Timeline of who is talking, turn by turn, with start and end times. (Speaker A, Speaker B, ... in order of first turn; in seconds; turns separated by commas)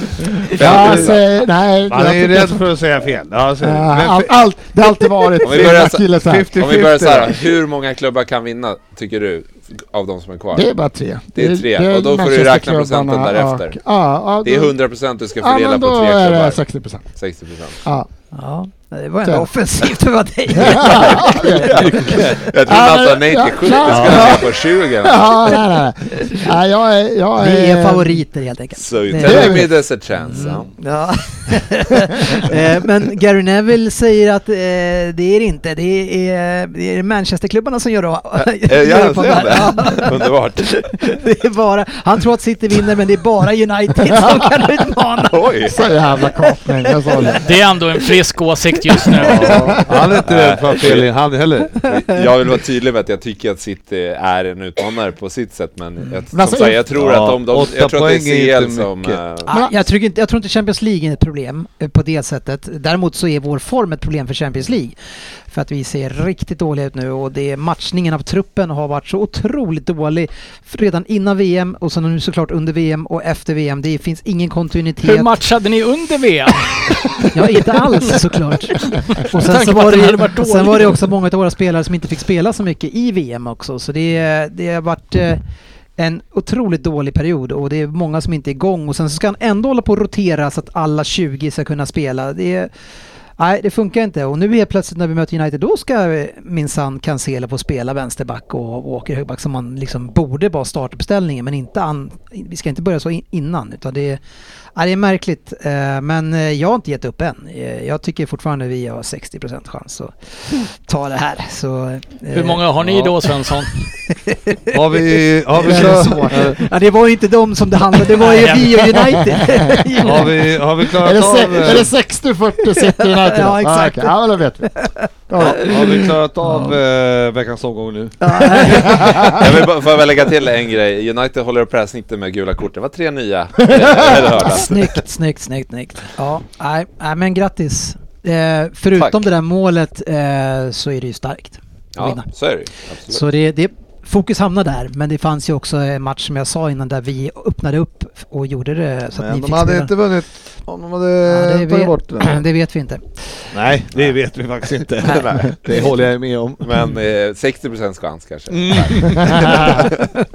Speaker A: 0.5-2.6, Speaker B: 0.5-1.2, Speaker C: 0.5-1.2, Speaker B: 1.9-4.3, Speaker A: 3.6-6.5, Speaker B: 5.4-7.4, Speaker C: 5.4-10.7, Speaker A: 10.5-14.8, Speaker C: 11.3-13.8, Speaker C: 14.4-16.6, Speaker A: 15.4-17.1, Speaker C: 17.1-17.8, Speaker D: 18.3-21.4, Speaker A: 20.5-28.2, Speaker C: 20.7-25.6, Speaker B: 23.9-24.4, Speaker D: 27.4-45.4, Speaker C: 28.8-30.7, Speaker A: 29.2-29.7, Speaker C: 38.7-41.0, Speaker B: 38.8-39.7, Speaker C: 45.3-45.8, Speaker A: 45.7-47.5, Speaker E: 47.3-49.8, Speaker B: 49.3-51.8, Speaker A: 49.3-50.1, Speaker C: 50.1-51.1, Speaker C: 51.8-59.5, Speaker D: 51.8-52.2, Speaker A: 56.3-57.0, Speaker B: 56.9-59.2, Speaker D: 59.5-64.9, Speaker A: 59.5-59.8, Speaker D: 65.5-75.3, Speaker E: 75.0-78.2, Speaker D: 77.2-85.4, Speaker E: 78.8-81.1, Speaker D: 86.0-92.7, Speaker D: 93.4-104.2, Speaker D: 104.8-112.7, Speaker E: 112.3-113.7, Speaker B: 112.8-113.1, Speaker D: 114.1-120.5, Speaker B: 114.7-116.6, Speaker A: 115.6-116.5, Speaker E: 118.2-118.6, Speaker A: 118.9-119.6, Speaker B: 120.0-121.9, Speaker A: 120.9-124.7, Speaker D: 122.6-124.2, Speaker D: 124.7-126.8, Speaker A: 125.3-125.8, Speaker B: 125.4-129.2, Speaker D: 128.2-129.4, Speaker A: 128.8-129.2, Speaker C: 129.2-134.9, Speaker D: 134.4-142.2, Speaker C: 141.9-143.2, Speaker D: 143.1-149.9, Speaker B: 149.2-152.4, Speaker D: 151.3-153.5, Speaker B: 153.5-156.7, Speaker C: 155.0-155.8, Speaker C: 156.6-159.9, Speaker B: 158.5-160.0